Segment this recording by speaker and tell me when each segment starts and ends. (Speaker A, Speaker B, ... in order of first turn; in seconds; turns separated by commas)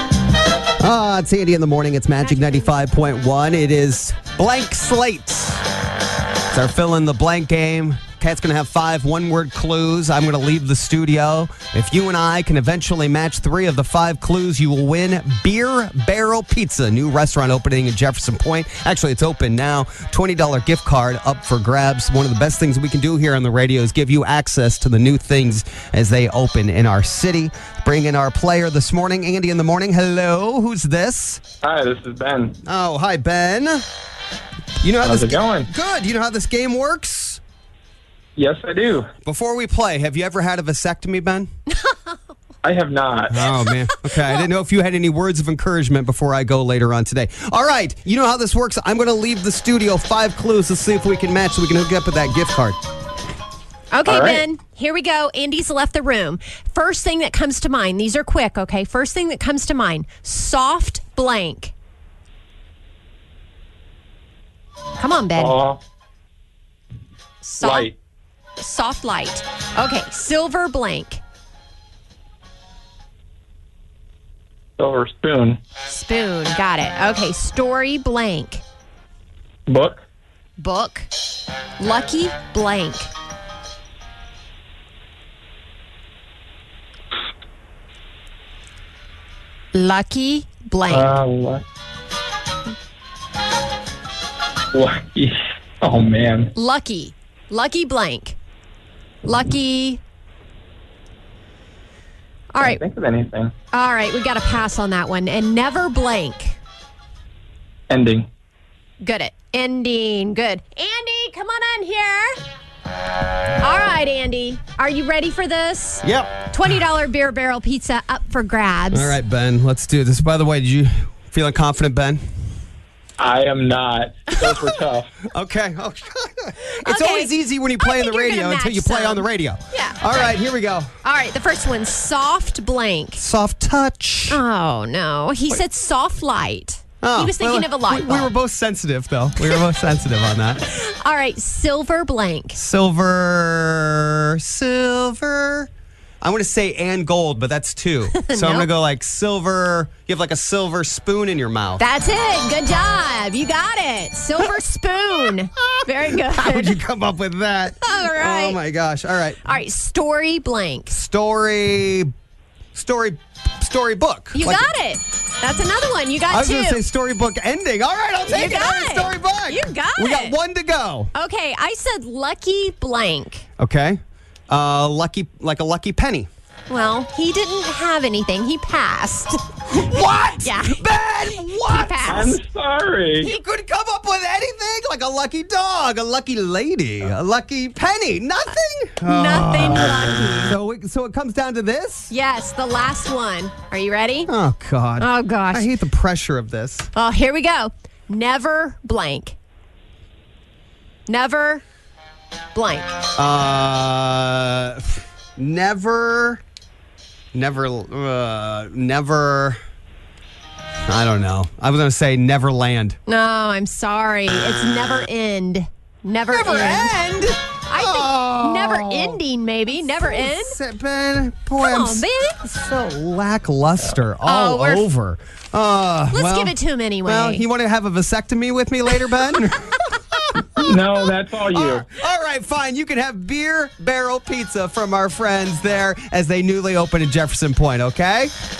Speaker A: 0.8-5.6, Speaker A: 6.5-31.4, Speaker B: 31.6-32.6, Speaker A: 32.6-33.8, Speaker A: 34.8-37.4, Speaker B: 35.0-35.7, Speaker B: 38.4-39.1, Speaker A: 39.2-41.5, Speaker C: 41.7-42.2, Speaker B: 42.6-43.5, Speaker A: 43.3-52.8, Speaker C: 43.5-44.5, Speaker C: 53.9-61.7, Speaker B: 54.0-54.4, Speaker C: 65.0-65.6, Speaker B: 65.4-65.8, Speaker C: 67.4-67.9, Speaker B: 67.6-67.9, Speaker C: 68.6-71.2, Speaker B: 74.8-75.6, Speaker C: 75.8-78.6, Speaker B: 79.7-80.0, Speaker C: 80.6-81.1, Speaker C: 81.8-83.1, Speaker C: 89.7-91.2, Speaker B: 90.9-91.6, Speaker B: 94.7-96.5, Speaker C: 96.5-98.4, Speaker C: 99.2-100.0, Speaker C: 102.5-102.8, Speaker B: 102.6-103.5, Speaker C: 103.7-106.6, Speaker B: 107.9-108.3, Speaker C: 109.0-112.4, Speaker C: 113.6-119.2, Speaker A: 116.0-116.5, Speaker A: 118.9-122.2, Speaker B: 123.2-125.1, Speaker A: 125.3-130.9, Speaker C: 126.7-130.4, Speaker C: 131.0-133.2, Speaker A: 133.2-134.4, Speaker C: 134.3-138.3, Speaker A: 137.0-140.7, Speaker C: 139.4-139.7, Speaker C: 140.7-142.6, Speaker A: 142.5-145.7, Speaker A: 146.2-151.8, Speaker C: 148.1-148.7, Speaker C: 151.8-156.8, Speaker A: 155.6-159.4, Speaker C: 157.8-158.6, Speaker C: 159.4-160.9, Speaker A: 160.9-162.1, Speaker A: 162.7-164.7, Speaker C: 164.3-166.8, Speaker A: 166.3-171.1, Speaker C: 168.2-170.4, Speaker C: 171.1-173.4, Speaker A: 173.6-176.3, Speaker C: 176.7-182.4, Speaker A: 179.7-182.3, Speaker B: 182.0-183.3, Speaker A: 183.2-192.1, Speaker C: 189.0-190.6, Speaker C: 192.1-194.3, Speaker A: 194.3-196.9, Speaker C: 195.0-195.7, Speaker C: 196.9-199.4, Speaker C: 201.1-201.6, Speaker C: 202.5-202.9, Speaker A: 203.1-206.4, Speaker A: 207.3-209.6, Speaker A: 210.9-213.0, Speaker C: 213.1-217.2, Speaker A: 216.3-219.2, Speaker C: 217.7-220.6, Speaker A: 219.9-230.7, Speaker C: 221.6-222.4, Speaker C: 224.2-224.9, Speaker C: 226.1-227.4, Speaker B: 230.6-231.9, Speaker A: 231.5-238.3